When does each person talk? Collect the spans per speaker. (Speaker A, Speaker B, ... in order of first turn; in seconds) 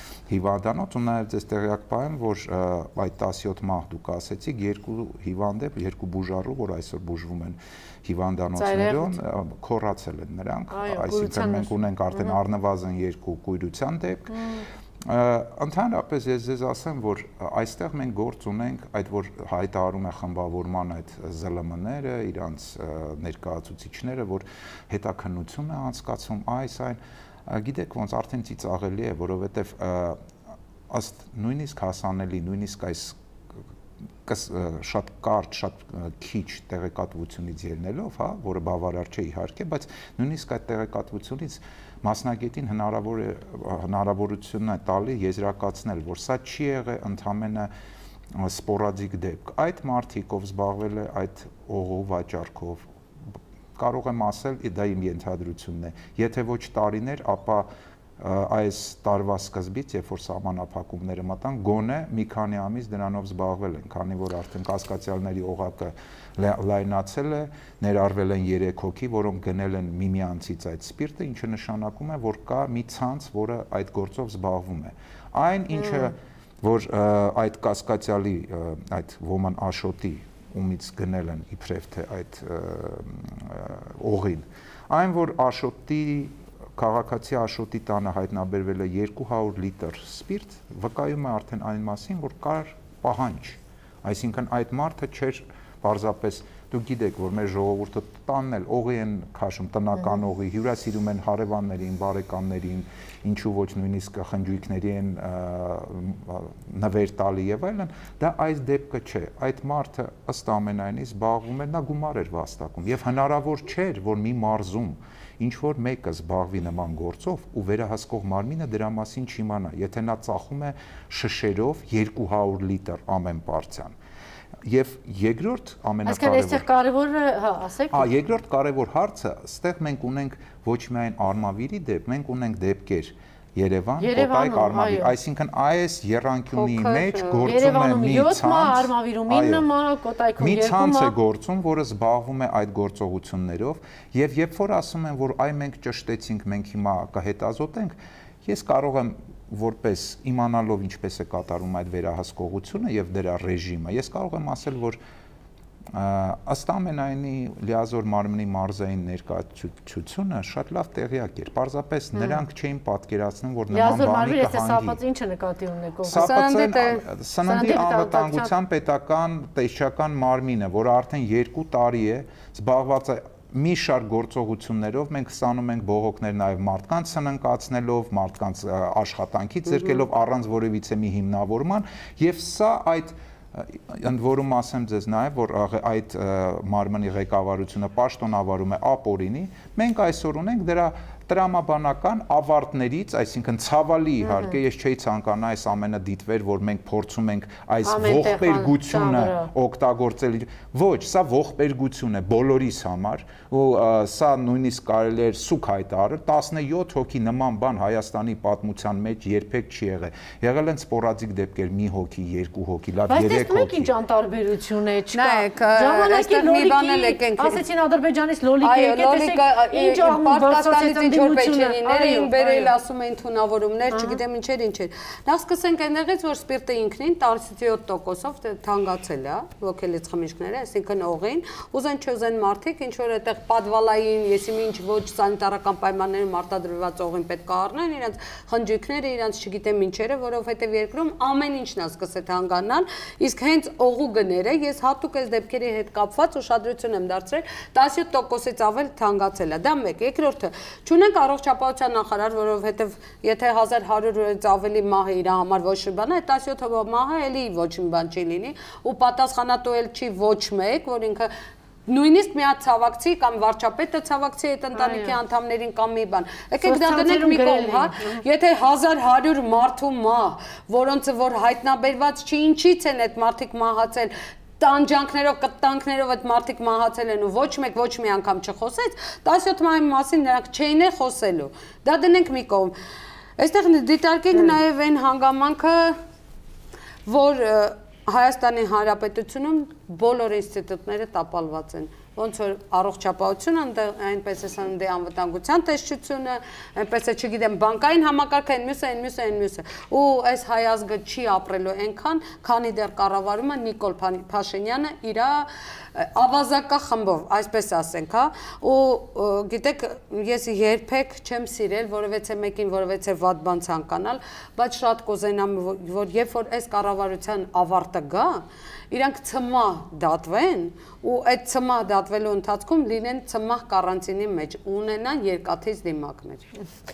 Speaker A: 0.3-14.4, 15.0-30.2, 30.9-33.2, 34.2-47.7, 48.3-57.7, 58.2-124.0, 124.6-126.7, 127.9-139.7, 140.4-155.0, 155.9-165.0, 166.1-213.9
Speaker B: 8.6-9.2, 10.7-12.3, 14.3-14.7, 126.1-128.1, 134.0-135.1, 137.5-141.1, 163.7-166.3, 167.5-168.5, 194.2-194.5, 197.8-199.5, 213.1-222.7, 223.9-224.2, 264.8-265.1, 266.6-268.2
Speaker C: 136.5-137.5, 166.1-167.9, 215.2-217.6, 218.6-261.3, 261.9-282.7, 283.4-286.0, 287.1-326.4